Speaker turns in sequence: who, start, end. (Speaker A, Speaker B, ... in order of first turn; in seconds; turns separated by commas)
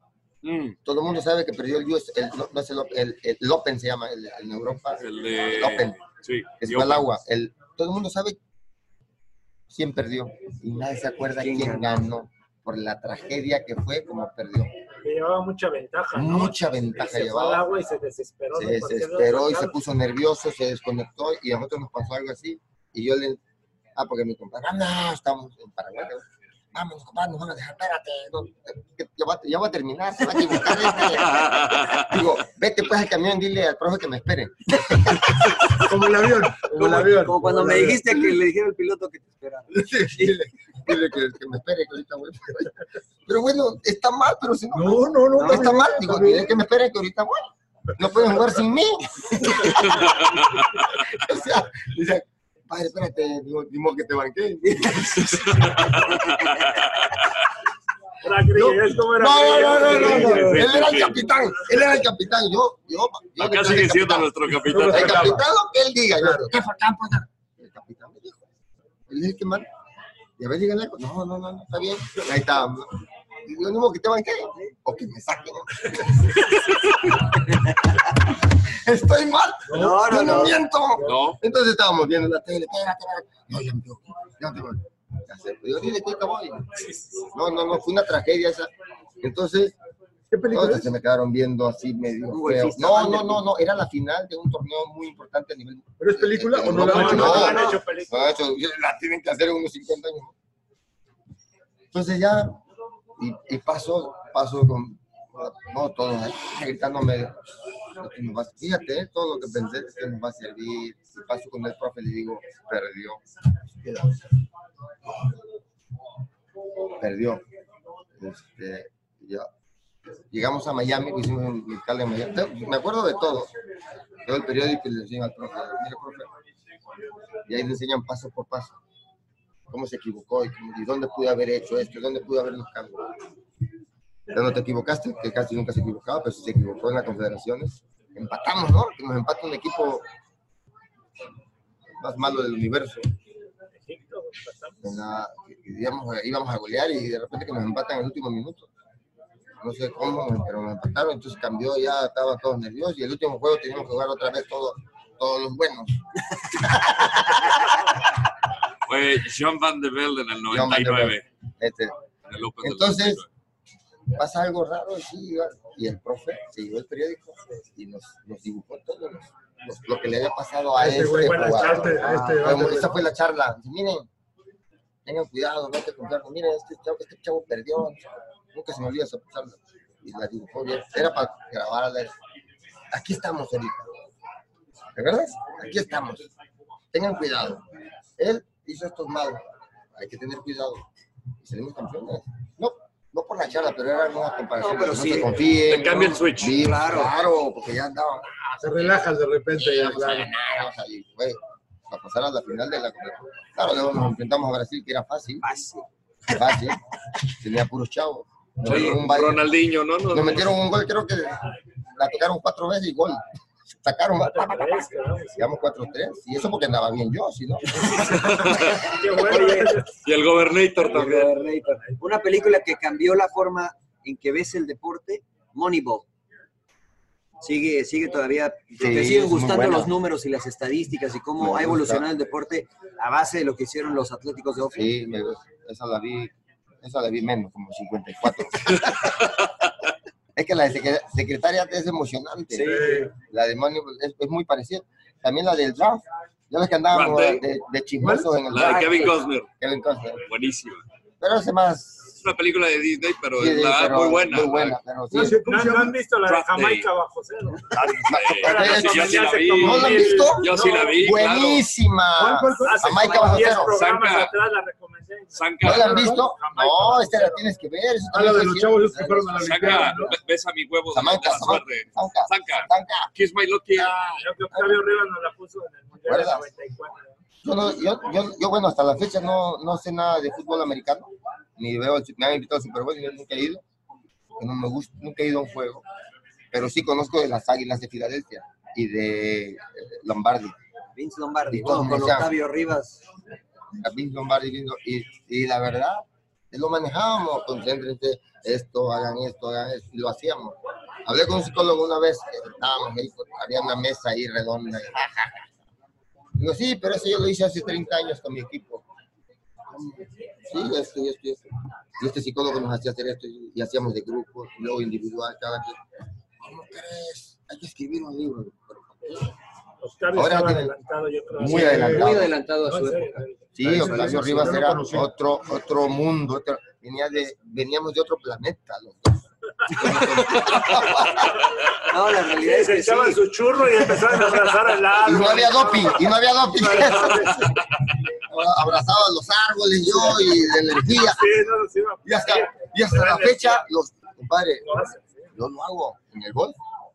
Speaker A: 0.5-0.7, Speaker B: 0.8-6.0, Speaker C: 5.0-7.1, Speaker B: 6.6-8.4, Speaker B: 9.7-14.7, Speaker A: 11.4-12.0, Speaker D: 15.0-19.8, Speaker B: 16.1-17.7, Speaker B: 18.5-23.4, Speaker B: 24.0-35.3, Speaker C: 31.3-32.0, Speaker E: 35.8-38.3, Speaker A: 36.7-40.4, Speaker E: 39.8-40.2, Speaker B: 40.2-42.7, Speaker B: 43.3-55.9, Speaker E: 44.7-46.5, Speaker A: 45.4-45.7, Speaker C: 55.2-57.2, Speaker D: 58.2-60.6, Speaker E: 58.5-61.0, Speaker B: 59.1-68.5, Speaker C: 60.6-61.2, Speaker C: 63.4-65.4, Speaker E: 64.6-65.4, Speaker E: 66.2-66.5, Speaker B: 69.1-69.7, Speaker B: 70.4-76.1, Speaker B: 78.6-88.7, Speaker E: 79.7-80.5, Speaker A: 79.7-80.6, Speaker C: 81.0-81.4, Speaker B: 89.2-89.8, Speaker E: 90.3-90.9, Speaker B: 90.5-100.3, Speaker A: 92.3-93.4, Speaker E: 96.0-97.6, Speaker D: 96.8-98.3, Speaker A: 96.9-97.8, Speaker B: 101.9-102.6, Speaker B: 103.2-107.4, Speaker B: 108.0-113.2, Speaker B: 113.8-114.2, Speaker B: 117.0-117.4, Speaker B: 118.2-119.5, Speaker B: 120.3-123.5, Speaker B: 124.2-126.3, Speaker B: 127.5-128.8, Speaker B: 129.7-133.1, Speaker B: 134.3-140.1, Speaker B: 142.0-143.1, Speaker D: 143.8-144.9, Speaker B: 144.8-148.7, Speaker B: 149.6-155.9, Speaker B: 156.5-157.5, Speaker C: 158.9-161.2, Speaker B: 160.5-161.9, Speaker C: 162.3-163.3, Speaker B: 162.6-163.2, Speaker B: 164.1-174.1, Speaker E: 170.8-173.0, Speaker D: 171.3-171.9, Speaker A: 172.0-172.6, Speaker B: 175.1-182.2, Speaker B: 182.9-184.1, Speaker B: 184.9-186.3, Speaker B: 186.9-187.7, Speaker B: 188.2-190.8, Speaker B: 191.4-198.9, Speaker A: 194.6-197.1, Speaker C: 195.7-196.5, Speaker E: 198.6-200.3, Speaker B: 199.6-205.5, Speaker A: 205.4-206.4, Speaker B: 206.3-209.5, Speaker C: 208.6-210.6, Speaker B: 210.1-213.2, Speaker B: 213.8-218.4, Speaker D: 214.2-215.5, Speaker D: 217.8-219.9, Speaker C: 218.1-218.8, Speaker A: 218.9-219.8, Speaker C: 220.0-221.3, Speaker A: 220.8-226.1, Speaker A: 227.4-234.8, Speaker B: 228.8-229.9, Speaker B: 231.4-232.1, Speaker B: 234.7-239.3, Speaker B: 240.4-250.2, Speaker A: 242.5-243.1, Speaker E: 242.6-243.1, Speaker C: 246.9-247.4, Speaker E: 248.0-248.3, Speaker C: 248.5-249.5, Speaker A: 248.5-249.2, Speaker C: 250.3-250.8, Speaker B: 251.2-252.2, Speaker C: 252.2-254.8, Speaker B: 253.4-255.4, Speaker E: 255.1-256.0, Speaker D: 255.2-260.9, Speaker C: 256.2-256.9, Speaker C: 257.7-261.6, Speaker B: 258.1-263.8, Speaker E: 262.2-262.9, Speaker D: 262.6-267.5, Speaker A: 262.9-263.6, Speaker C: 263.7-264.3, Speaker C: 265.4-266.1, Speaker B: 265.6-270.1, Speaker E: 268.1-270.2, Speaker C: 269.4-274.0, Speaker B: 270.9-273.1, Speaker B: 273.7-274.8, Speaker D: 274.2-277.2, Speaker B: 276.1-276.5, Speaker B: 277.4-283.6, Speaker B: 284.4-285.9, Speaker B: 286.5-290.6, Speaker A: 291.0-293.0, Speaker B: 291.5-292.4, Speaker B: 293.8-305.5, Speaker B: 306.4-308.9, Speaker B: 309.7-315.8, Speaker B: 316.4-319.3, Speaker D: 319.8-321.8, Speaker B: 320.1-320.8, Speaker B: 321.4-322.4, Speaker E: 321.4-323.0, Speaker A: 321.5-324.6, Speaker D: 322.8-323.3, Speaker B: 323.6-331.4, Speaker E: 323.6-325.1, Speaker A: 331.9-333.2, Speaker D: 332.4-337.5, Speaker B: 335.0-337.6, Speaker B: 338.1-341.4, Speaker D: 340.8-343.7, Speaker B: 342.1-346.6, Speaker D: 344.6-345.2